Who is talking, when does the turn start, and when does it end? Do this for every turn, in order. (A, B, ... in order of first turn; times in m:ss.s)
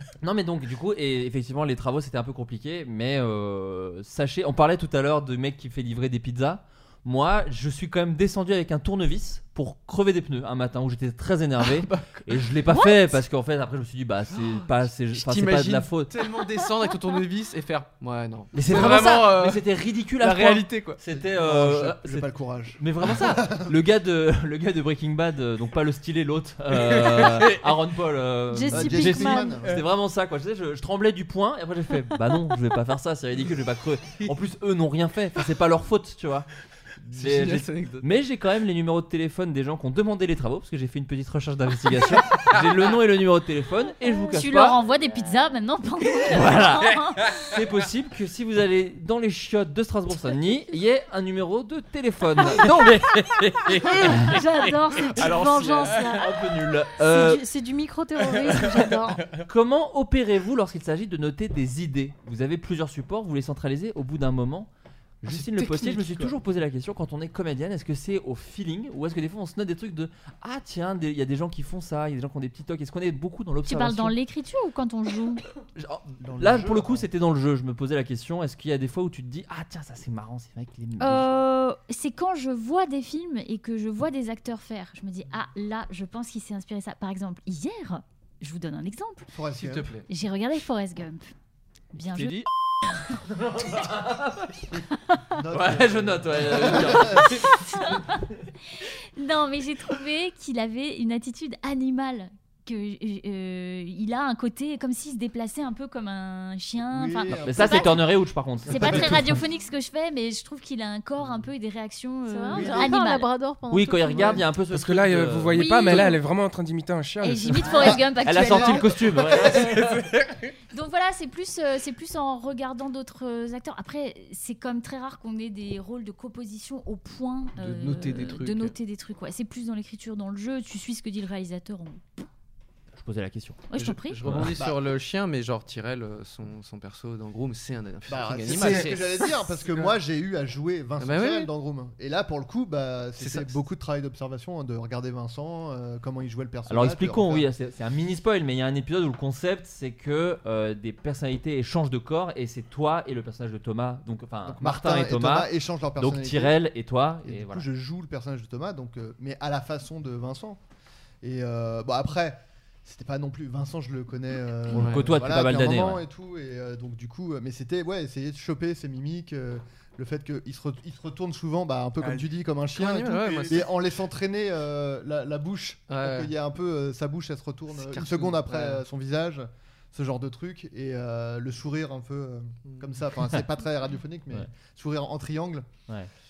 0:00.2-0:16.2 A
0:11.6-0:12.5 B
0:14.3-0:21.0 B
0:18.5-0:36.5 A
0:21.1-0:23.8 C
0:26.9-0:27.6 B
0:28.5-0:29.6 D
0:28.7-0:29.8 C
0:37.0-0:44.8 A
0:37.1-0:38.0 B
0:44.0-0:47.4 E
0:46.3-0:54.4 A
0:53.8-0:56.4 D
0:55.1-0:56.1 B
0:56.0-0:57.4 A
0:57.0-0:59.3 D
0:59.3-1:04.7 A
1:05.2-1:14.1 A
1:05.2-1:06.3 B
1:13.6-1:15.4 E
1:15.8-1:21.4 A
1:16.2-1:17.1 C
1:21.0-1:29.3 E
1:29.3-1:29.9 C
1:29.6-1:30.0 B
1:30.1-1:31.3 E
1:31.9-1:32.4 E
1:32.1-1:32.4 B
1:33.3-1:34.5 A
1:35.3-1:37.3 C
1:35.5-1:37.6 A
1:37.6-1:38.2 E
1:39.2-1:48.0 E
1:46.8-1:48.0 C
1:47.4-1:49.4 A
1:48.7-1:53.3 E
1:48.7-1:49.4 C
1:52.3-1:54.4 D
1:52.5-1:52.9 C
1:53.7-1:56.0 A
1:54.6-1:58.0 F
1:55.5-1:56.2 E
1:57.2-1:58.9 E
1:58.2-2:00.0 A
2:00.7-2:12.2 E
2:07.6-2:08.7 B
2:13.0-2:13.7 A
2:13.7-2:14.2 E
2:13.8-2:20.0 B
2:14.2-2:14.5 A
2:18.1-2:27.5 C
2:21.0-2:21.5 B
2:23.2-2:23.6 B
2:26.7-2:37.6 A
2:34.5-2:36.6 C
2:37.2-2:40.6 C
2:41.2-3:05.7 C
2:44.7-2:45.1 B
2:44.7-2:46.0 A
2:52.7-2:53.7 B
2:55.9-2:56.3 B
2:57.7-2:58.8 B
3:02.6-3:02.9 B